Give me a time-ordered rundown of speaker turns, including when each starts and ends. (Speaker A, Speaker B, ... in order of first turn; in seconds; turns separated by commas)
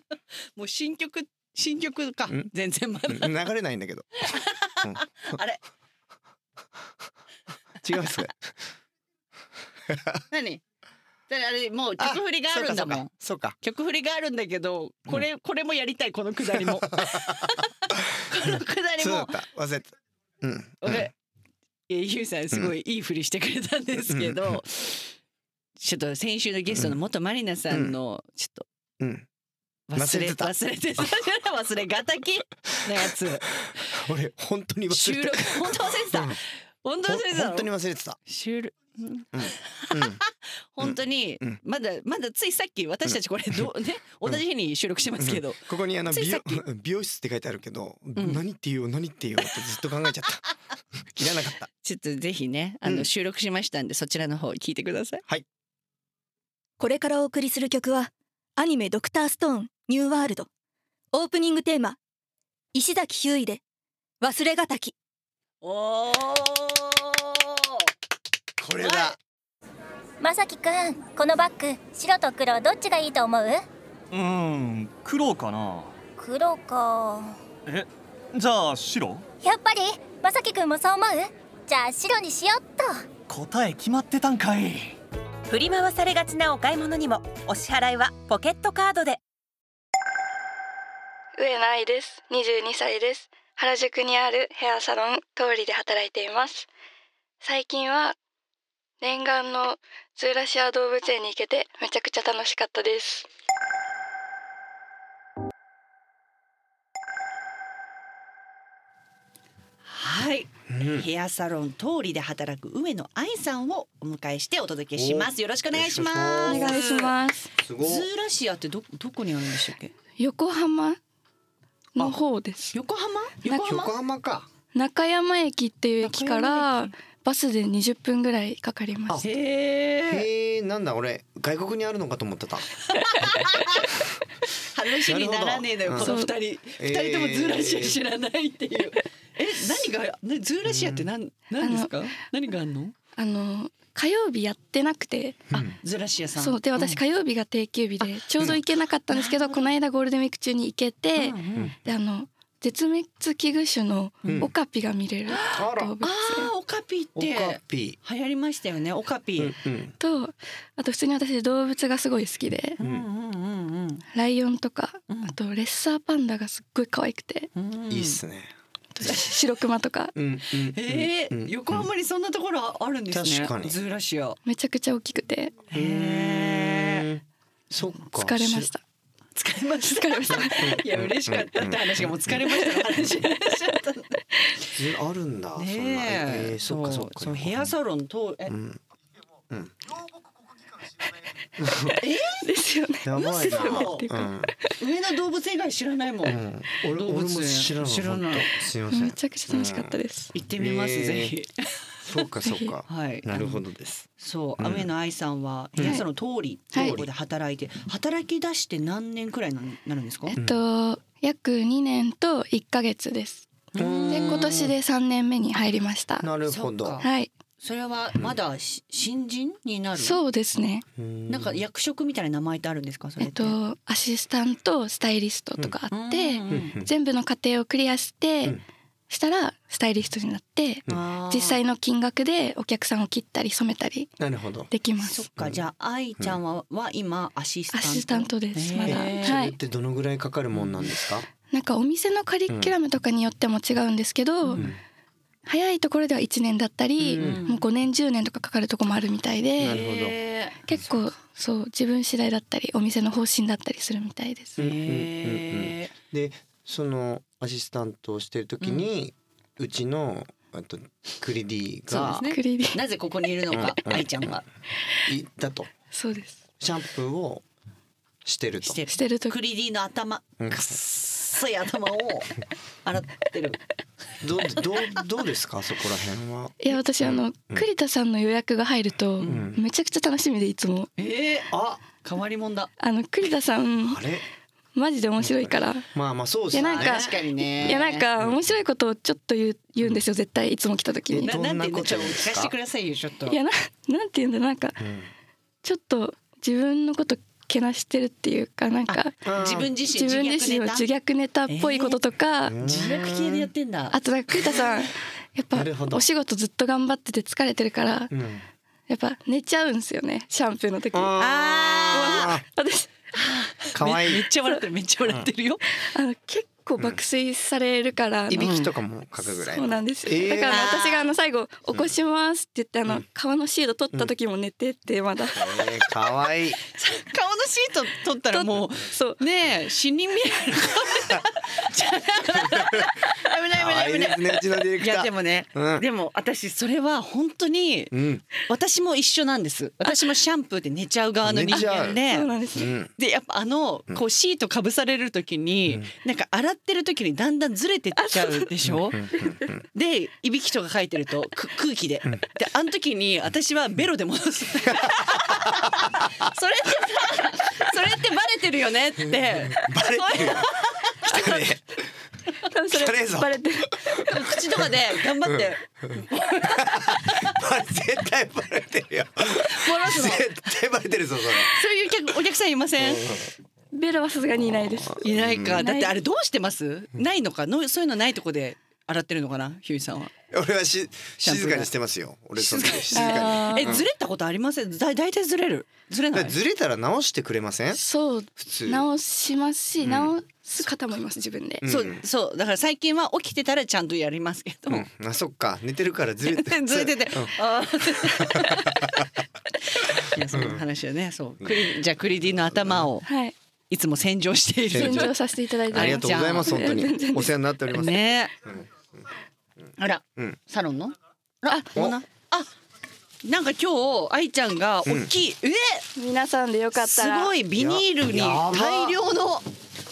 Speaker A: 0.6-3.4, Speaker B: 3.1-4.3, Speaker A: 4.2-5.6, Speaker B: 4.8-5.4, Speaker B: 7.8-8.6, Speaker B: 9.9-10.2, Speaker A: 10.3-10.6, Speaker A: 11.3-19.4, Speaker B: 12.0-13.6, Speaker B: 16.5-21.1, Speaker A: 20.8-21.1, Speaker A: 21.9-25.1, Speaker B: 24.1-24.6, Speaker A: 25.8-28.7, Speaker B: 26.7-27.0, Speaker B: 27.7-28.0, Speaker B: 29.0-29.3, Speaker A: 29.9-34.0, Speaker B: 29.9-31.1, Speaker B: 33.6-36.4, Speaker A: 34.9-37.7, Speaker B: 37.1-38.2, Speaker A: 38.3-46.6, Speaker B: 39.3-40.2, Speaker B: 40.8-41.6, Speaker B: 43.1-43.7, Speaker B: 45.2-50.4, Speaker A: 48.2-48.4, Speaker B: 51.1-51.7, Speaker A: 51.8-55.2, Speaker B: 52.8-53.1, Speaker C: 56.8-60.5, Speaker C: 61.1-62.0, Speaker C: 62.7-63.6, Speaker C: 64.2-65.0, Speaker A: 65.6-67.9, Speaker B: 68.6-69.2, Speaker A: 68.8-69.2, Speaker D: 70.2-73.6, Speaker E: 74.1-76.0, Speaker D: 76.2-77.4, Speaker E: 77.7-79.3, Speaker D: 79.4-83.1, Speaker E: 83.3-85.0, Speaker F: 85.5-89.2, Speaker G: 91.4-96.7, Speaker G: 97.4-98.2, Speaker G: 99.0-103.3, Speaker A: 109.9-117.2, Speaker B: 110.7-111.1, Speaker B: 115.0-116.8, Speaker G: 116.5-117.5, Speaker B: 117.6-118.1, Speaker A: 117.8-119.9, Speaker G: 120.2-121.0, Speaker G: 122.0-122.8, Speaker A: 122.7-123.9, Speaker G: 123.5-123.8, Speaker B: 123.6-124.5, Speaker G: 124.7-129.2, Speaker A: 126.0-126.9, Speaker A: 129.2-130.3, Speaker B: 130.1-133.8, Speaker A: 132.8-142.9, Speaker B: 135.1-136.2, Speaker G: 136.0-136.3, Speaker B: 136.8-138.0, Speaker B: 140.7-141.1, Speaker G: 141.6-141.9, Speaker G: 143.2-145.4, Speaker A: 145.5-147.0, Speaker G: 146.4-156.5, Speaker A: 149.1-149.7, Speaker A: 151.2-151.8, Speaker A: 154.2-154.5, Speaker B: 154.2-154.5, Speaker A: 155.3-159.6, Speaker B: 155.5-155.9, Speaker B: 157.2-158.0, Speaker B: 159.4-159.9, Speaker G: 160.0-162.8, Speaker A: 162.8-164.0, Speaker B: 162.8-163.1, Speaker G: 164.1-167.5, Speaker A: 167.6-168.2, Speaker B: 167.9-168.5, Speaker G: 169.0-170.2, Speaker B: 170.2-171.9, Speaker A: 170.6-174.4, Speaker B: 173.1-173.8, Speaker G: 174.5-175.6, Speaker A: 175.7-177.1, Speaker B: 175.7-178.7, Speaker G: 178.2-178.8, Speaker A: 179.3-184.2, Speaker G: 179.9-180.8, Speaker B: 180.3-182.4, Speaker G: 182.5-182.7, Speaker B: 184.8-187.7, Speaker A: 185.6-188.5, Speaker B: 188.5-188.8, Speaker B: 189.5-189.8, Speaker B: 191.6-192.0, Speaker A: 192.0-192.5, Speaker G: 192.4-194.7, Speaker B: 193.0-194.6, Speaker A: 193.4-194.1, Speaker A: 194.8-198.5, Speaker B: 196.2-200.0, Speaker G: 198.9-200.3, Speaker A: 200.3-202.2, Speaker B: 200.6-201.4, Speaker B: 202.1-204.1, Speaker G: 202.4-202.8, Speaker A: 202.9-203.6, Speaker A: 204.2-210.4, Speaker B: 204.6-204.9, Speaker B: 205.8-206.0, Speaker B: 206.8-207.1, Speaker G: 210.3-213.5, Speaker A: 213.7-214.6, Speaker B: 213.8-214.7, Speaker G: 214.1-216.3, Speaker B: 216.2-217.0, Speaker A: 216.5-217.1, Speaker G: 217.0-217.3, Speaker A: 217.6-220.2, Speaker G: 220.0-220.8, Speaker B: 221.0-221.6, Speaker A: 221.3-223.6, Speaker G: 223.2-234.1, Speaker A: 225.9-226.8, Speaker B: 226.5-226.9, Speaker A: 230.9-231.6, Speaker B: 234.2-234.7, Speaker G: 234.7-235.2, Speaker A: 235.0-239.4, Speaker G: 237.7-239.6, Speaker B: 238.8-241.3, Speaker A: 240.5-240.9, Speaker G: 241.5-244.7, Speaker A: 244.4-244.7, Speaker G: 245.5-249.8, Speaker B: 247.0-247.4, Speaker A: 247.2-247.6, Speaker B: 249.6-250.2, Speaker A: 249.6-250.6, Speaker G: 250.7-254.7, Speaker B: 254.6-262.2, Speaker A: 254.6-255.9, Speaker A: 258.6-258.9, Speaker A: 261.9-264.4, Speaker G: 262.2-262.8, Speaker B: 263.5-264.3, Speaker B: 265.1-265.7, Speaker G: 265.9-266.4, Speaker B: 266.6-267.4, Speaker B: 268.2-268.8, Speaker A: 268.6-273.6, Speaker G: 268.9-269.4, Speaker B: 270.4-270.8, Speaker B: 274.2-277.7, Speaker G: 276.6-280.9, Speaker A: 279.2-279.5, Speaker B: 279.2-279.6, Speaker A: 281.0-282.7, Speaker B: 281.5-281.8, Speaker G: 282.8-284.1, Speaker B: 283.9-284.2, Speaker G: 284.8-285.9, Speaker B: 285.2-288.4, Speaker G: 286.5-291.3, Speaker A: 286.6-288.1, Speaker B: 291.1-292.5, Speaker A: 291.2-293.4, Speaker G: 293.3-294.8, Speaker B: 294.8-295.1, Speaker G: 295.6-299.2, Speaker A: 298.9-300.9, Speaker B: 299.2-299.7, Speaker G: 299.8-302.7, Speaker A: 301.5-302.0, Speaker B: 302.4-303.5, Speaker A: 302.6-304.6, Speaker G: 303.9-308.1, Speaker B: 305.5-306.1, Speaker B: 308.1-308.4, Speaker G: 308.9-311.2, Speaker B: 310.9-312.4, Speaker A: 311.2-312.3, Speaker G: 311.9-312.9, Speaker A: 313.1-315.6, Speaker B: 313.7-314.2, Speaker G: 315.7-318.6, Speaker B: 318.3-320.7, Speaker A: 318.4-318.7, Speaker G: 319.5-325.5, Speaker A: 320.5-321.1, Speaker B: 325.4-326.6, Speaker A: 326.0-342.3, Speaker G: 328.3-329.2, Speaker B: 332.4-332.9, Speaker B: 333.5-335.9, Speaker B: 337.9-338.2, Speaker B: 341.2-342.0, Speaker G: 341.5-342.7, Speaker B: 342.6-342.9, Speaker A: 343.0-349.1, Speaker G: 348.0-348.5, Speaker B: 348.6-349.6, Speaker G: 349.1-349.5, Speaker A: 349.7-361.4, Speaker B: 354.8-356.0, Speaker B: 359.4-360.5, Speaker B: 361.0-361.8, Speaker G: 362.5-364.0, Speaker B: 362.7-371.5, Speaker A: 363.9-367.4, Speaker G: 369.6-370.2, Speaker A: 369.7-370.2, Speaker A: 371.4-373.1, Speaker B: 372.8-373.3, Speaker G: 373.7-375.9, Speaker B: 375.0-375.6, Speaker A: 375.0-380.1, Speaker B: 380.3-383.9, Speaker A: 381.2-381.7, Speaker A: 382.4-386.4, Speaker G: 382.9-383.8, Speaker B: 386.1-387.8, Speaker G: 387.7-391.6, Speaker B: 388.4-388.9, Speaker B: 389.8-390.1, Speaker B: 391.6-392.0, Speaker A: 391.6-394.9, Speaker B: 394.7-397.4, Speaker A: 396.3-399.0, Speaker B: 397.9-399.1, Speaker A: 399.7-403.1, Speaker B: 400.1-400.6, Speaker B: 402.2-402.9, Speaker G: 403.1-403.4, Speaker A: 403.7-405.1, Speaker B: 404.7-405.1, Speaker G: 404.7-407.3, Speaker B: 405.7-408.1, Speaker A: 405.7-406.8, Speaker A: 407.7-408.4, Speaker A: 409.8-412.5, Speaker A: 413.2-415.9, Speaker B: 414.9-415.1, Speaker G: 416.0-417.3, Speaker A: 416.8-419.5, Speaker B: 417.6-419.0